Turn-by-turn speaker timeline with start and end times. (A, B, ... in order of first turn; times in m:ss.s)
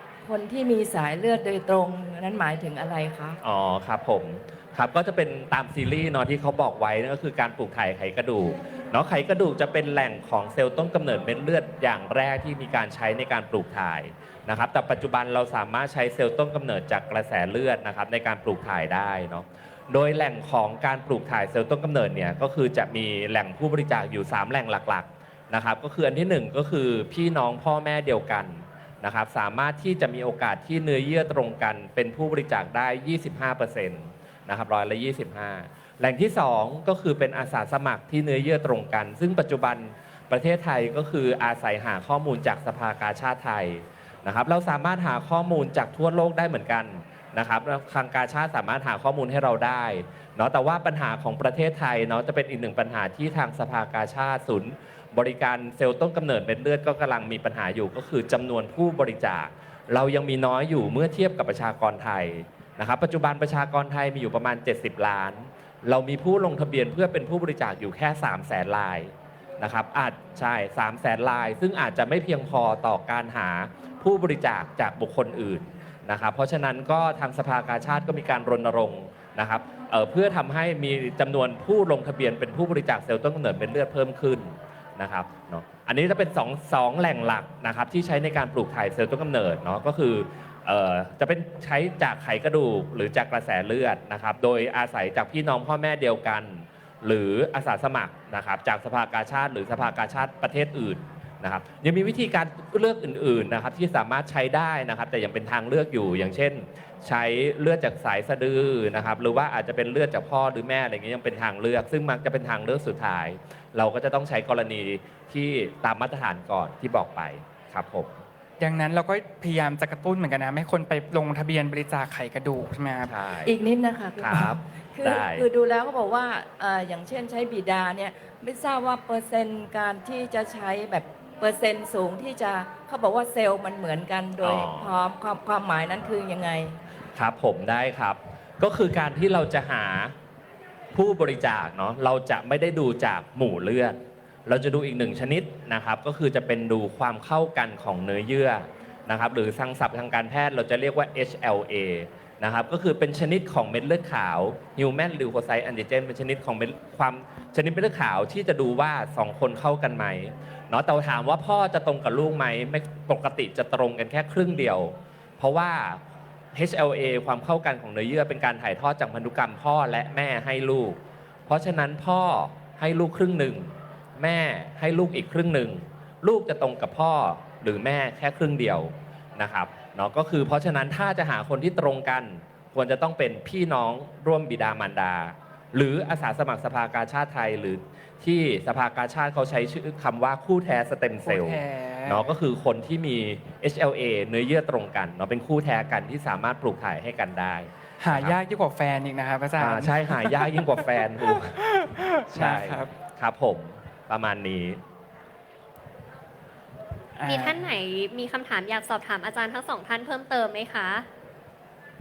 0:00.2-0:03.4 A
0:03.4-1:58.2 B
1:58.6-2:03.2 C
2:03.0-2:03.6 B
2:03.4-2:16.8 A
2:04.2-2:05.5 B
2:14.4-2:15.0 B
2:17.2-2:20.2 B
2:20.9-3:18.4 B
3:11.2-3:12.3 C
3:18.0-3:22.9 C
3:19.6-3:21.7 B
3:22.3-3:24.8 B
3:27.2-3:27.7 C
3:27.3-3:31.0 D